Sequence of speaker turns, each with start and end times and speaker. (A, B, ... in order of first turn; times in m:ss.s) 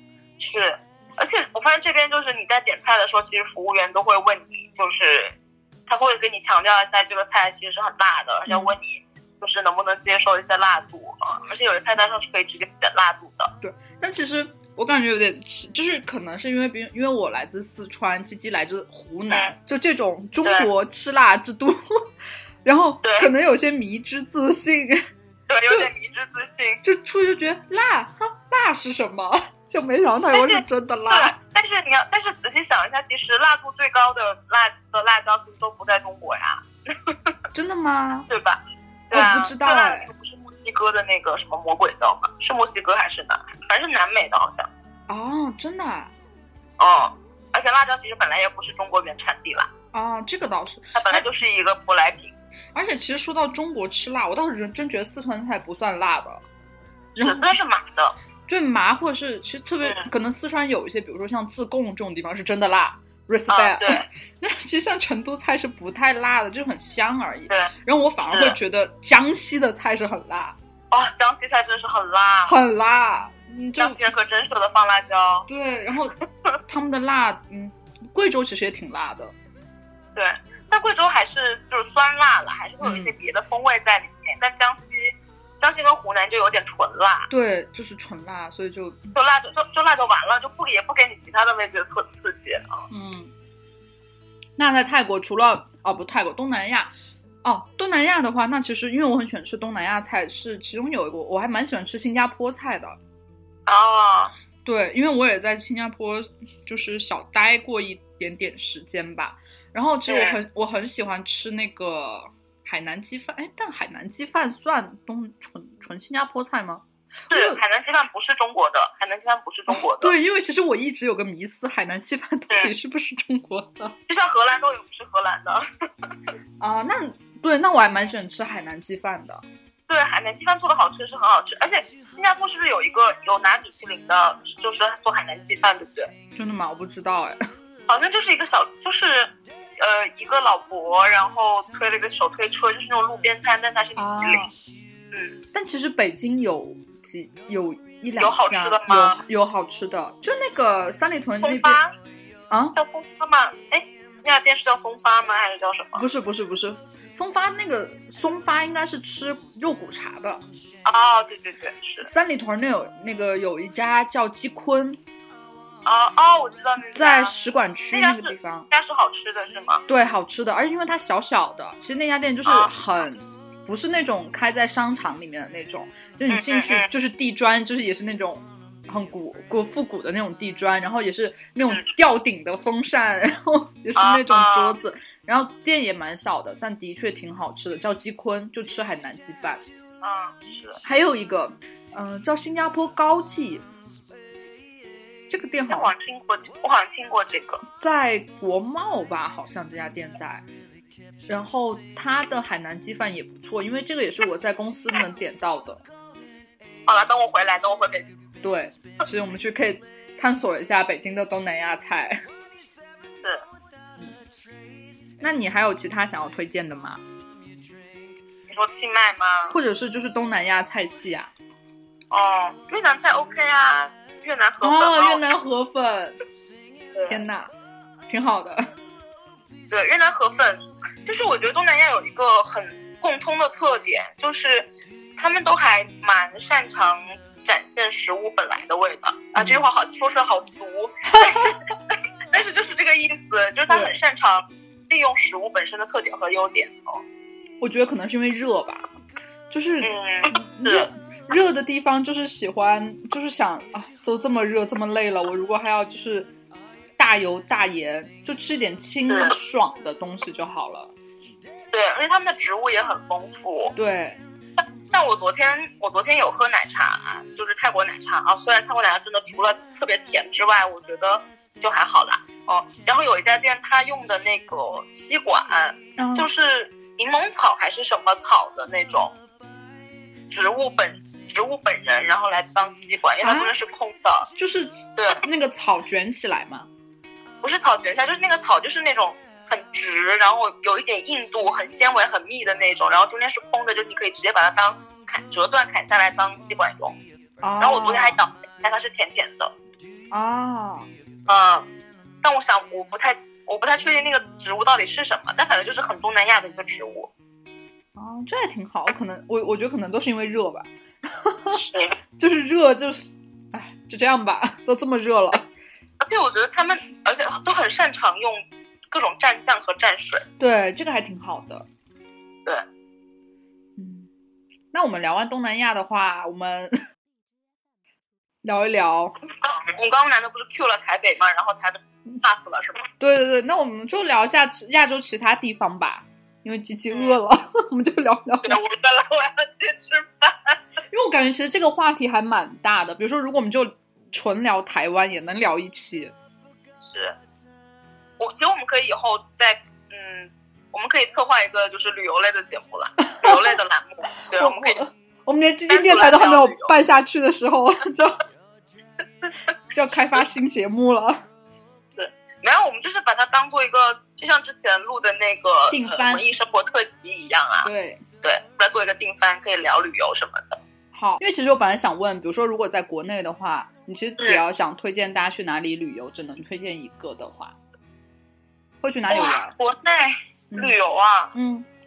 0:00.4-0:05.3 A
0:05.9-0:13.5 A
0:13.6-0:21.8 B
0:22.6-0:25.0 B
0:23.0-0:23.3 A
0:25.5-0:26.8 A
0:26.8-0:31.3 B
0:30.3-0:37.3 A
0:37.5-0:38.3 B
0:38.3-0:44.7 A
0:39.1-0:40.1 B
0:45.1-0:46.1 B
0:46.8-0:49.7 A
0:49.9-0:51.3 B
0:50.9-0:52.3 A
0:52.7-0:56.4 B
0:57.2-0:58.1 A
0:57.2-0:57.5 B
0:58.5-1:10.6 B
0:59.8-1:00.1 A
1:03.5-1:04.0 A
1:08.2-1:08.6 A
1:10.9-1:12.5 A
1:12.4-1:14.0 B
1:13.8-1:15.5 A
1:15.5-1:16.2 B
1:16.7-1:19.3 B
1:20.1-1:27.3 A
1:22.8-1:23.1 B
1:27.3-1:29.1 B
1:29.1-1:32.8 A
1:32.9-1:33.3 B
1:34.6-1:43.0 B
1:43.6-1:44.3 A
1:44.6-1:57.6 B
1:50.1-1:50.4 A
1:57.3-2:00.2 A
1:59.7-2:04.0 B
2:04.1-2:06.1 A
2:06.6-2:09.4 B
2:09.9-2:16.1 A
2:16.4-2:17.4 B
2:17.9-2:24.4 A
2:24.0-2:24.5 B
2:25.1-2:25.4 A
2:25.5-2:31.8 B
2:28.2-2:29.2 A
2:31.4-2:31.9 A
2:32.5-2:32.8 B
2:32.7-2:36.0 A
2:35.9-2:40.4 B
2:40.8-2:42.1 A
2:42.0-2:45.0 B
2:45.8-2:47.3 A
2:46.9-2:48.7 B
2:47.9-2:49.8 A
2:49.9-3:09.6 B
2:56.3-2:56.9 A
3:04.0-3:04.8 A
3:10.0-3:10.8 A
3:10.8-3:13.6 B
3:15.3-3:15.9 B
3:15.7-3:17.6 A
3:17.8-3:20.4 B
3:21.3-3:25.8 B
3:26.8-3:28.2 A
3:28.4-3:32.2 B
3:35.2-3:37.0 B
3:38.5-3:39.6 A
3:39.5-3:41.3 B
3:42.1-3:45.3 A
3:44.6-3:46.2 B
3:46.9-3:47.2 A
3:47.1-3:47.5 B
3:48.1-3:48.7 B
3:49.7-4:07.0 A
3:59.4-3:59.6 B
4:01.1-4:01.5 B
4:03.7-4:03.9 B
4:07.6-4:08.9 B
4:09.5-4:16.3 B
4:09.8-4:10.9 A
4:17.0-4:20.9 B
4:19.1-4:19.4 A
4:21.7-4:23.7 A
4:23.7-4:24.2 B
4:24.9-4:39.1 A
4:36.0-4:36.3 B
4:40.3-4:44.3 A
4:43.2-4:43.5 B
4:44.4-4:46.7 B
4:45.0-4:45.2 A
4:47.4-4:57.0 A
4:57.4-4:58.2 B
4:57.6-4:59.5 A
5:00.1-5:00.9 B
5:01.3-5:01.7 A
5:02.2-5:07.1 A
5:08.0-5:11.6 B
5:11.5-5:11.9 A
5:12.2-5:15.4 B
5:16.0-5:20.2 A
5:20.4-5:21.6 B
5:23.8-5:24.1 B
5:24.7-5:26.7 B
5:28.4-5:29.2 B
5:29.3-5:32.9 A
5:33.0-5:38.6 B
5:36.9-5:37.2 A
5:38.4-5:40.6 A
5:40.9-5:46.1 B
5:46.8-5:47.2 A
5:48.2-5:54.8 A
5:53.0-5:53.5 B
5:54.2-5:58.2 B
5:55.7-5:56.7 A
5:59.7-6:01.2 B
6:02.0-6:07.7 A
6:05.7-6:06.2 B
6:07.6-6:08.0 B
6:08.2-6:10.6 A
6:10.9-6:17.5 B
6:18.8-6:19.5 B
6:19.1-6:21.3 A
6:20.5-6:20.8 B
6:21.3-6:21.7 B